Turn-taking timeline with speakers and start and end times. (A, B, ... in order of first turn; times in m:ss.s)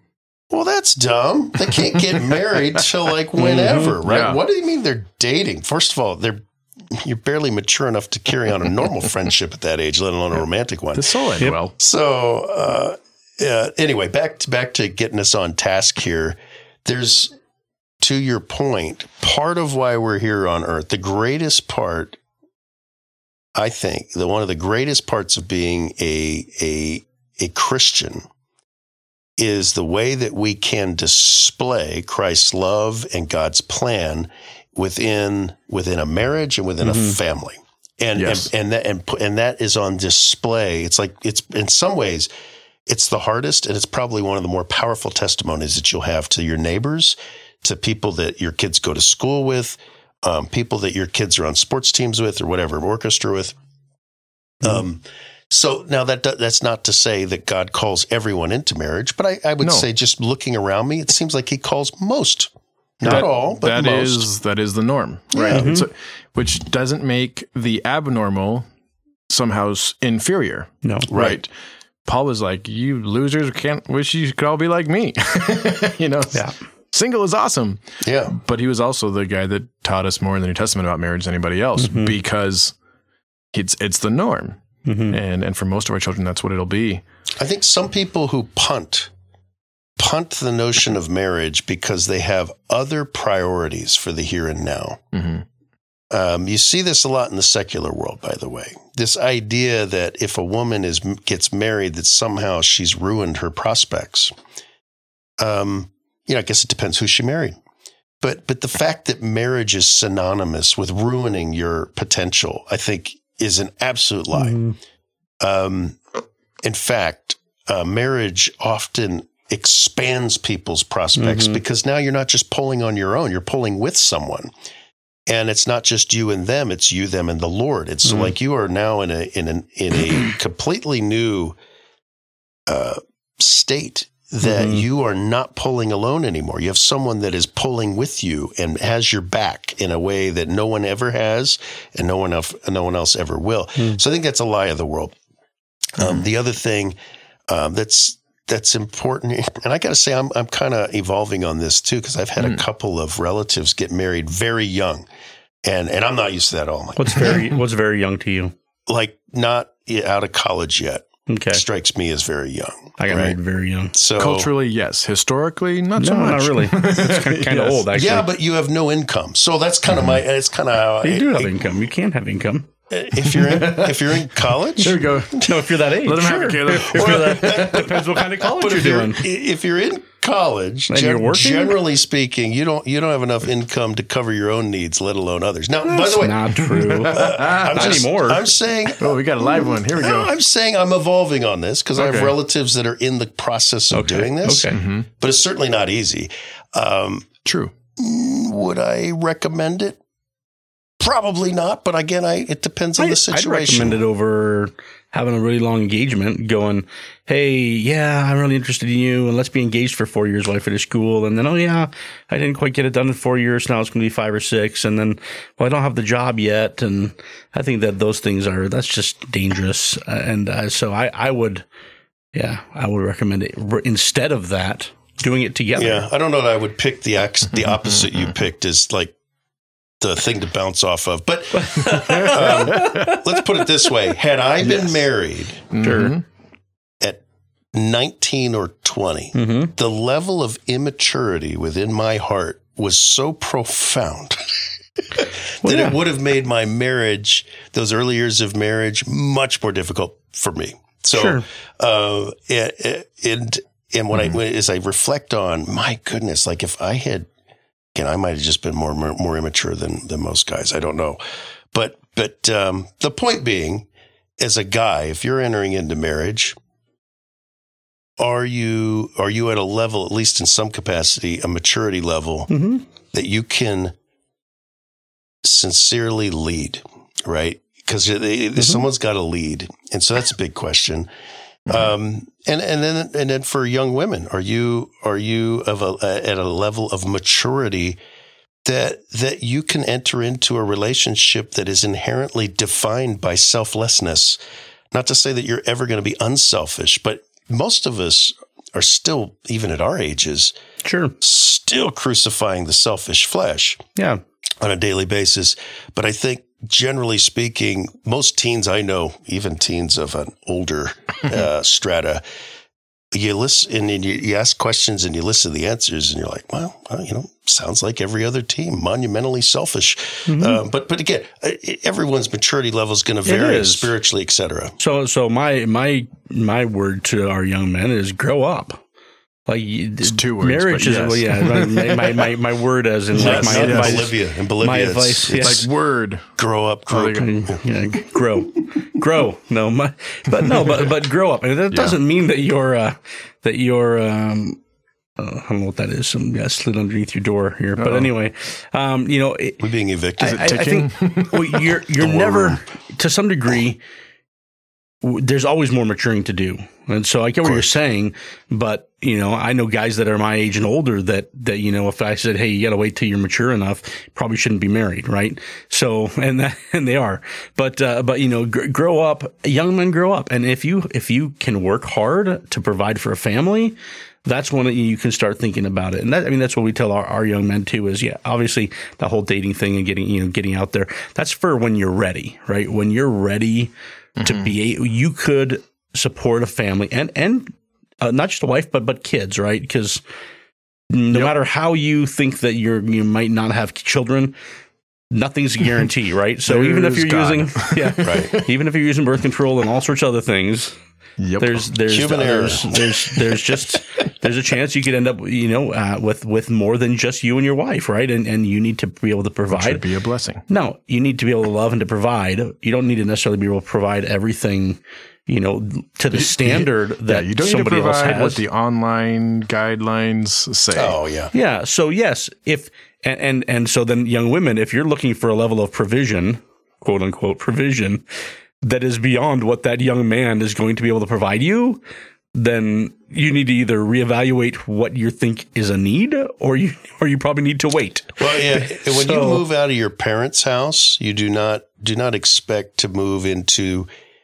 0:00.5-0:11.1 A
0:03.4-0:04.0 B
0:04.0-0:04.4 C
0:10.9-0:11.7 C
0:11.8-0:17.3 A
0:18.0-0:22.2 A
0:23.6-0:28.3 A
0:29.4-0:42.3 A
0:36.8-0:37.2 B
0:38.2-0:38.5 C
0:42.9-0:53.6 A
0:54.6-1:04.3 A
1:03.0-1:08.7 C
1:05.4-1:05.8 A
1:05.4-1:05.9 B
1:09.3-1:11.5 C
1:10.8-1:11.1 B
1:11.1-1:11.4 A
1:12.0-1:22.7 C
1:18.0-1:18.3 A
1:21.8-1:22.2 B
1:23.5-1:24.6 C
1:24.8-1:25.2 B
1:25.1-1:27.0 C
1:27.4-1:29.1 A
1:30.0-1:35.0 A
1:35.1-1:35.4 C
1:36.1-1:44.3 A
1:45.4-1:47.6 A
1:48.2-1:54.6 A
1:54.3-1:54.8 B
1:55.4-1:56.0 A
1:56.6-2:04.5 A
2:01.2-2:01.6 B
2:05.3-2:11.6 A
2:08.0-2:08.3 B
2:12.7-2:25.2 A
2:14.4-2:14.8 B
2:26.0-2:26.9 A
2:27.5-2:35.0 A
2:35.6-2:37.5 A
2:37.0-2:38.5 B
2:38.9-2:43.4 A
2:41.3-2:41.6 B
2:43.0-2:43.9 B
2:43.9-2:44.5 A
2:44.2-2:47.8 C
2:46.0-2:48.3 B
2:47.9-2:51.6 A
2:49.9-2:50.2 C
2:51.0-2:52.7 B
2:52.9-2:55.4 A
2:53.2-2:58.1 C
2:55.4-2:59.2 B
2:56.9-3:17.3 A
3:00.9-3:01.8 B
3:05.8-3:08.4 B
3:06.8-3:08.0 C
3:09.0-3:10.3 C
3:12.0-3:12.3 C
3:13.9-3:14.8 B
3:14.7-3:15.1 C
3:17.4-3:17.7 C
3:18.0-3:20.0 A
3:21.0-3:24.0 A
3:23.0-3:41.6 B
3:42.3-3:46.0 B
3:45.8-3:49.1 A
3:50.0-3:55.7 A
3:51.5-3:53.2 B
3:51.9-3:53.2 C
3:55.7-3:56.2 C
3:55.8-3:56.2 B
3:57.0-4:04.4 A
3:59.3-3:59.7 B
4:05.1-4:17.3 A
4:05.6-4:06.0 B
4:11.1-4:11.4 B
4:17.9-4:21.2 A
4:21.7-4:23.9 A
4:24.4-4:26.6 A
4:28.2-4:32.5 A
4:32.5-4:32.8 B
4:33.1-4:33.9 A
4:35.4-4:41.1 A
4:41.7-4:48.0 A
4:48.6-4:54.4 A
4:54.9-5:00.5 A
5:00.8-5:01.2 B
5:01.2-5:03.8 A
5:04.0-5:04.2 B
5:04.6-5:12.2 A
5:13.1-5:24.7 A
5:20.3-5:20.6 B
5:23.2-5:23.9 B
5:24.8-5:28.8 B
5:29.5-5:35.7 B
5:30.0-5:32.3 C
5:33.1-5:35.7 A
5:33.2-5:34.1 C
5:35.4-5:36.3 C
5:36.4-5:37.6 A
5:36.9-5:37.3 C
5:37.1-5:44.6 B
5:41.7-5:42.0 C
5:45.2-5:49.6 B
5:47.8-5:48.1 C
5:49.6-5:50.5 A
5:50.2-5:53.8 B
5:50.3-5:51.7 C
5:52.0-5:52.6 A
5:55.0-6:30.0 B
6:24.2-6:24.5 C
6:30.9-6:34.3 B
6:35.1-6:40.7 B
6:36.5-6:38.4 C
6:38.0-6:38.4 A
6:41.2-6:41.6 C
6:41.4-6:49.8 B
6:41.9-6:43.1 A
6:49.5-6:50.4 C
6:50.5-6:58.4 B
6:56.1-7:01.0 C
7:00.7-7:01.3 A
7:01.3-7:08.0 B
7:08.6-7:11.8 B
7:12.3-7:19.4 B
7:18.2-7:23.9 A